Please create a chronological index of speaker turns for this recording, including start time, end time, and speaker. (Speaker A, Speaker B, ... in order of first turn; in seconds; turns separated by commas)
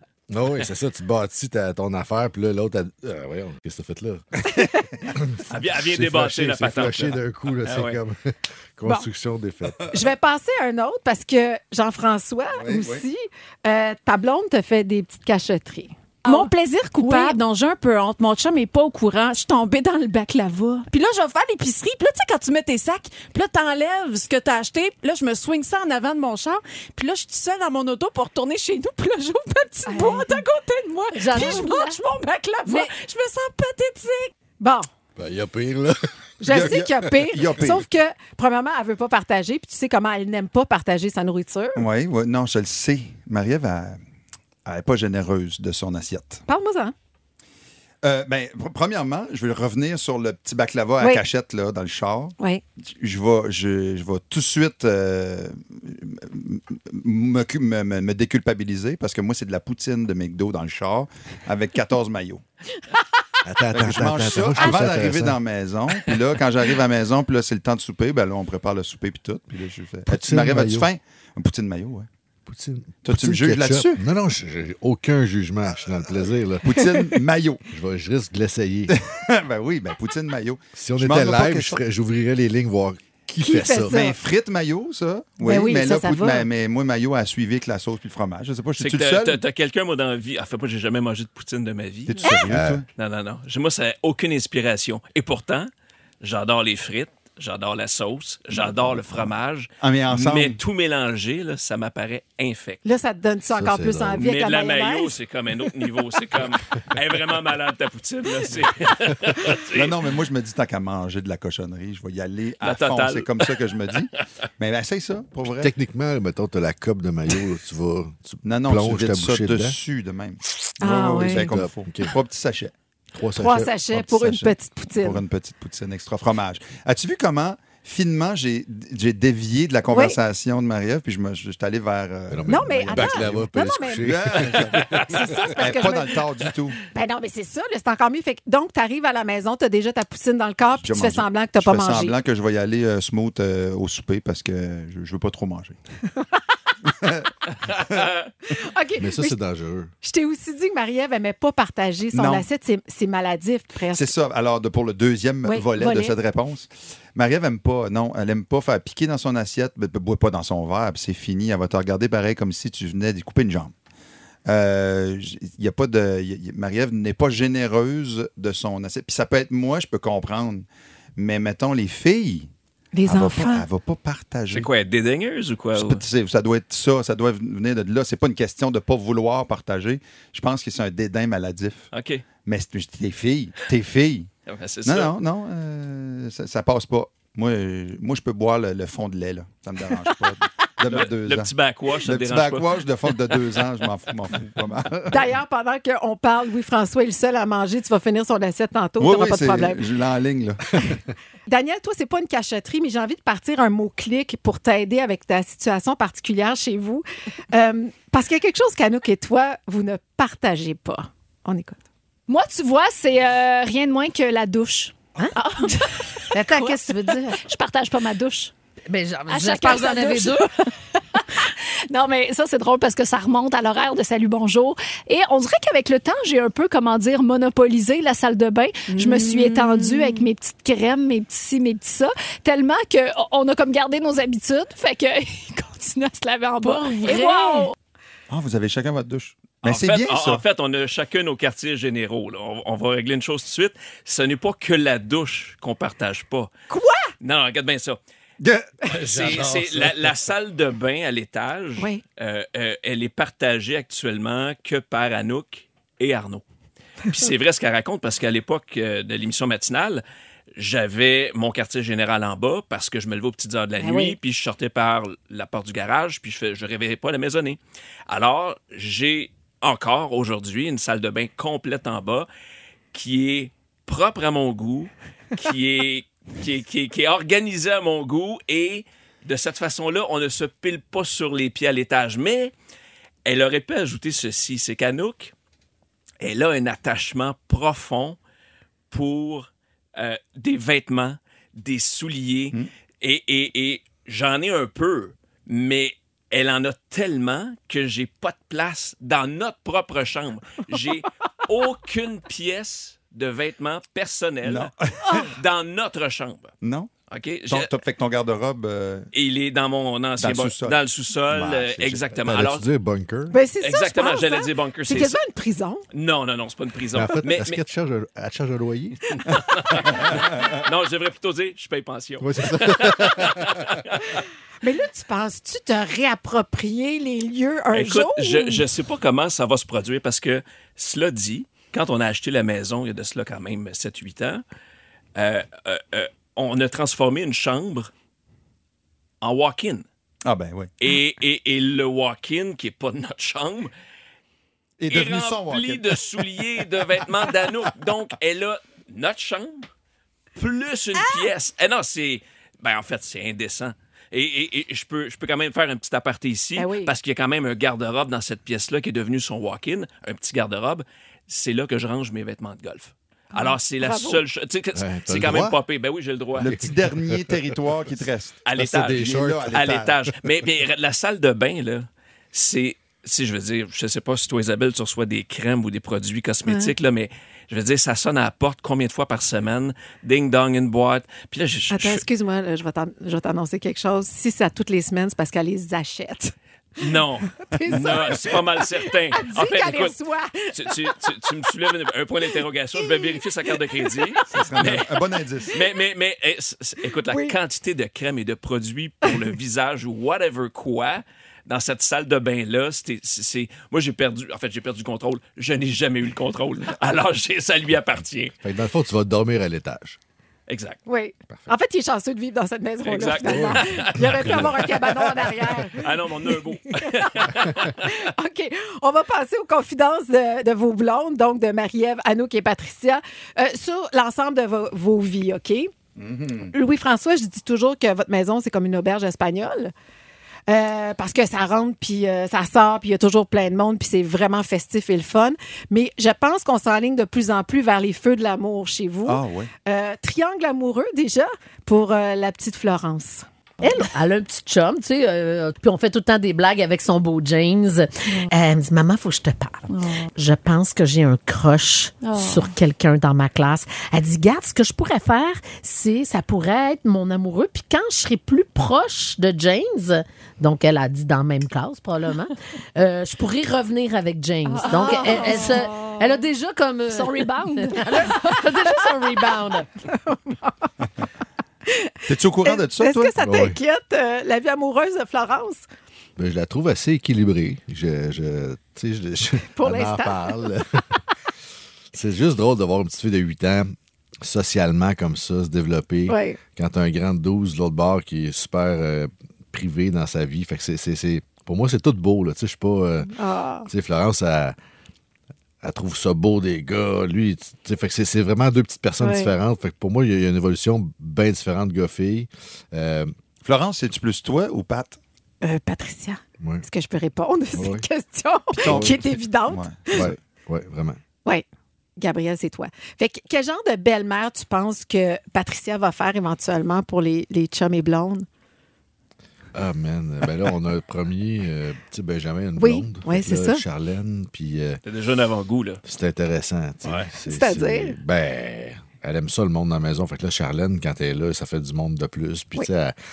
Speaker A: 0.3-4.2, Speaker B: 4.5-5.1, Speaker A: 5.1-9.9, Speaker C: 5.5-8.0, Speaker D: 9.9-16.5, Speaker B: 12.6-13.0, Speaker E: 16.2-34.3, Speaker D: 17.0-17.4, Speaker D: 29.9-30.4, Speaker F: 31.2-31.9, Speaker D: 31.4-31.7, Speaker D: 34.6-34.9, Speaker A: 35.1-36.8, Speaker D: 36.4-41.9, Speaker B: 36.5-37.8, Speaker B: 41.7-44.0, Speaker B: 44.6-46.4, Speaker D: 46.5-46.9, Speaker B: 48.0-52.4, Speaker D: 52.4-52.6, Speaker B: 53.0-62.4, Speaker A: 63.4-65.4, Speaker B: 63.7-72.1, Speaker A: 70.1-70.9, Speaker A: 72.5-76.8, Speaker B: 73.0-74.0, Speaker B: 76.6-77.6, Speaker A: 77.7-79.0, Speaker B: 78.9-81.8, Speaker A: 80.7-84.0, Speaker D: 83.4-84.2, Speaker B: 83.9-89.4, Speaker D: 85.4-86.5, Speaker C: 88.8-92.4, Speaker B: 92.1-92.8, Speaker A: 92.5-92.8, Speaker C: 93.0-95.7, Speaker C: 96.2-102.8, Speaker B: 99.8-100.6, Speaker D: 102.8-105.2, Speaker A: 103.5-104.2, Speaker C: 104.2-110.0, Speaker B: 109.7-115.7, Speaker C: 112.6-113.6, Speaker A: 115.4-119.8, Speaker B: 118.4-122.7, Speaker D: 120.8-121.5, Speaker A: 120.9-122.2, Speaker A: 123.1-123.7, Speaker D: 123.3-125.2, Speaker B: 123.9-133.4, Speaker D: 129.9-130.2, Speaker A: 132.3-135.5, Speaker D: 132.4-134.5, Speaker B: 134.0-136.8, Speaker C: 134.8-135.1, Speaker D: 135.1-136.2, Speaker D: 136.9-142.2, Speaker B: 140.8-145.8, Speaker B: 146.8-148.1, Speaker C: 147.7-148.3, Speaker D: 148.5-149.4, Speaker A: 149.0-149.9, Speaker D: 150.0-154.1, Speaker B: 152.1-152.5, Speaker B: 153.9-163.7, Speaker D: 155.4-156.1, Speaker B: 164.5-170.6, Speaker B: 171.2-172.5, Speaker D: 172.9-173.7, Speaker B: 173.1-174.7, Speaker C: 174.5-176.0, Speaker B: 175.7-181.9, Speaker C: 181.9-182.2, Speaker B: 182.4-184.3, Speaker C: 184.5-185.2, Speaker B: 184.8-195.3, Speaker C: 190.8-193.3, Speaker D: 195.1-199.8, Speaker B: 199.0-200.9, Speaker D: 201.5-211.8, Speaker G: 212.3-216.8, Speaker D: 215.2-215.8, Speaker D: 216.3-217.4, Speaker F: 216.3-216.9, Speaker G: 217.3-218.5, Speaker F: 218.9-220.5, Speaker G: 219.3-220.4, Speaker G: 221.2-237.7, Speaker E: 228.9-230.2, Speaker E: 236.6-237.7, Speaker B: 238.3-240.4, Speaker C: 239.6-246.5, Speaker D: 246.7-247.1, Speaker C: 247.2-248.0, Speaker B: 248.4-248.8, Speaker A: 248.8-250.1, Speaker C: 248.8-256.4, Speaker C: 257.1-260.0, Speaker C: 260.5-272.3, Speaker D: 263.8-264.1, Speaker C: 272.9-282.5, Speaker C: 283.2-285.3, Speaker C: 286.2-288.2, Speaker C: 288.9-306.5, Speaker B: 304.4-305.3, Speaker B: 306.6-306.9, Speaker C: 307.1-307.7, Speaker B: 307.5-309.1, Speaker C: 309.1-312.6, Speaker B: 310.2-310.8, Speaker B: 311.3-311.9, Speaker A: 311.9-313.4, Speaker D: 313.3-315.8, Speaker C: 313.6-315.2, Speaker C: 315.9-317.6, Speaker A: 316.9-319.2, Speaker C: 319.2-324.2, Speaker A: 322.2-323.8, Speaker D: 324.6-328.6, Speaker C: 327.7-334.4, Speaker C: 335.1-337.9, Speaker C: 339.2-339.8, Speaker B: 340.2-340.7, Speaker C: 340.8-343.7, Speaker B: 344.8-346.2, Speaker C: 344.9-349.7, Speaker C: 350.4-366.6, Speaker D: 356.6-356.9, Speaker D: 363.3-364.2, Speaker A: 364.7-365.6, Speaker B: 366.4-369.9, Speaker A: 366.5-367.6, Speaker C: 368.4-382.0, Speaker A: 368.5-369.6, Speaker D: 376.4-376.7, Speaker D: 381.7-386.3, Speaker C: 386.8-389.9, Speaker D: 387.4-391.0, Speaker C: 390.5-408.3, Speaker D: 392.8-394.3, Speaker B: 394.3-395.6, Speaker D: 397.1-397.3, Speaker A: 408.4-410.0, Speaker C: 410.5-410.8, Speaker D: 410.9-415.9, Speaker C: 412.8-414.8, Speaker A: 413.2-414.8, Speaker C: 415.5-417.9, Speaker D: 416.7-425.7, Speaker B: 426.0-426.5, Speaker D: 426.4-429.7, Speaker D: 430.5-443.2, Speaker B: 439.0-439.5, Speaker F: 443.6-469.7, Speaker G: 452.0-452.4, Speaker D: 464.6-465.5, Speaker G: 464.6-465.6, Speaker E: 464.9-465.3, Speaker G: 466.9-468.4, Speaker D: 469.9-470.7, Speaker D: 471.7-471.9, Speaker B: 472.1-473.1, Speaker D: 472.4-475.6, Speaker A: 473.2-473.6, Speaker A: 476.2-481.0, Speaker D: 479.6-480.4, Speaker A: 481.9-493.1, Speaker D: 486.1-486.4, Speaker D: 493.1-493.7, Speaker A: 493.6-494.5, Speaker A: 495.6-503.1, Speaker D: 499.0-499.3, Speaker B: 503.4-505.0, Speaker D: 505.4-510.1, Speaker A: 506.4-506.6, Speaker A: 507.5-507.9, Speaker B: 508.6-510.2, Speaker A: 508.6-509.0, Speaker A: 509.9-511.0, Speaker D: 512.0-518.2, Speaker A: 519.5-524.8, Speaker D: 522.6-523.6, Speaker C: 524.8-525.8, Speaker A: 525.8-532.9, Speaker C: 526.8-527.1, Speaker D: 527.3-528.0